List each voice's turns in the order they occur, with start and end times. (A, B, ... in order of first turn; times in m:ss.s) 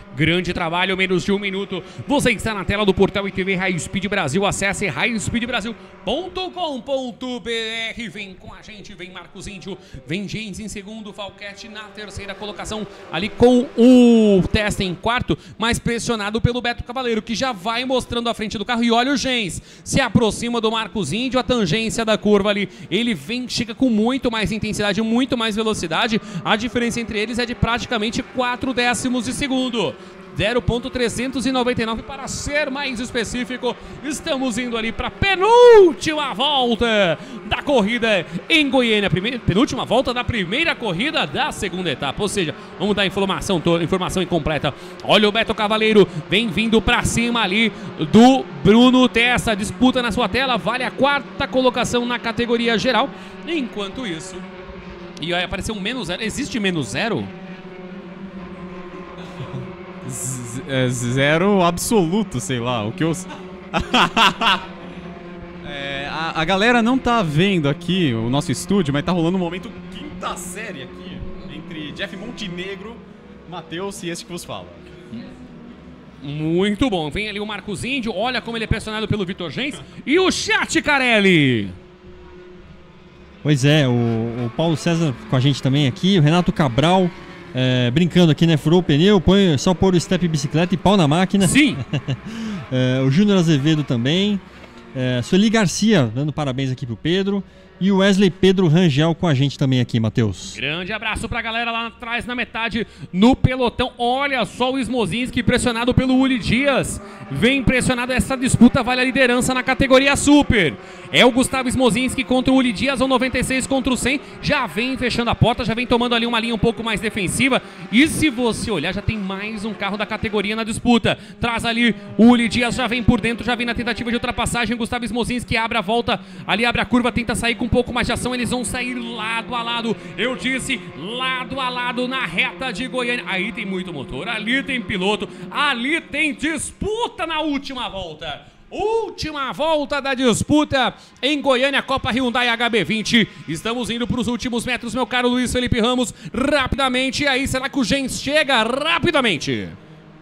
0:00.1-0:54.5 A
0:55.2-0:57.3 A
1:00.0-1:04.7 B
1:05.6-1:14.8 B
1:16.2-1:21.8 A
1:23.4-1:34.4 C
1:31.4-1:31.8 A
1:34.9-1:40.6 C
1:40.5-2:29.8 A